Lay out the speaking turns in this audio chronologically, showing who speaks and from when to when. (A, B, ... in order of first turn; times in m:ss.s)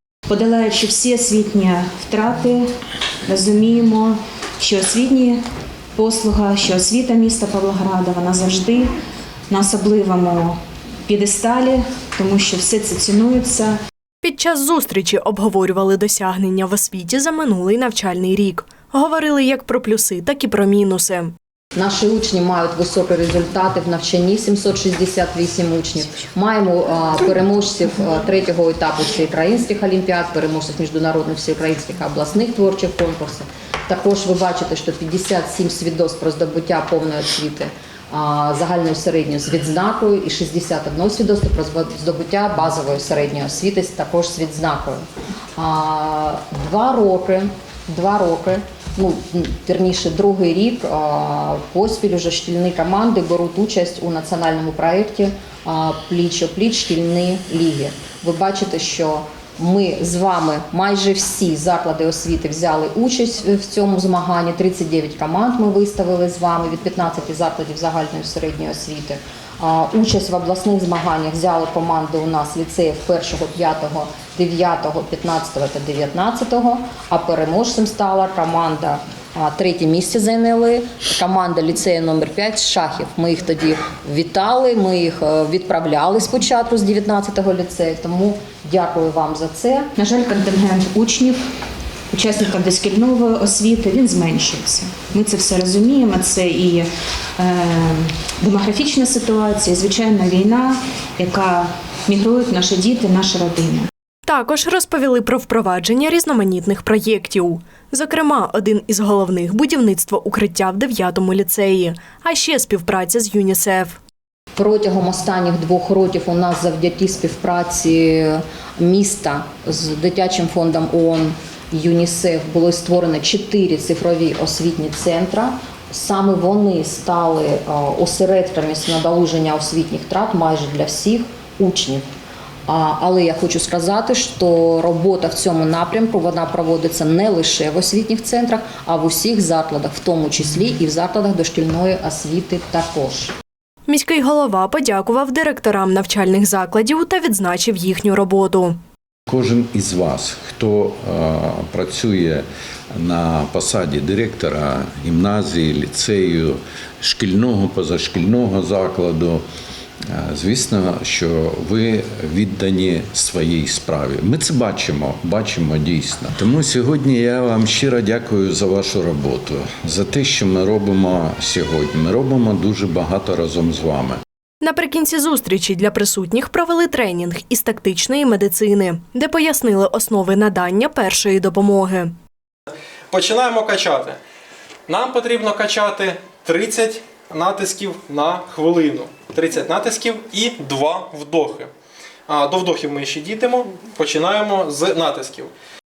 0:00.3-0:02.7 A
0:03.3-0:05.4 A
0:06.0-0:08.9 A
0:09.5-0:13.8 A
0:14.2-0:21.3 B
0:21.8-0:45.0 C
0:45.6-1:29.9 C
1:30.0-1:31.4 A
1:32.1-1:43.9 A
1:44.3-1:54.0 B
1:54.6-2:12.0 C
2:12.7-2:23.3 C
2:23.9-2:28.8 B
2:29.3-2:39.4 D
2:40.1-2:54.2 D
2:54.6-3:02.1 B
3:03.1-3:04.2 E
3:04.9-3:11.7 E
3:12.3-3:15.5 E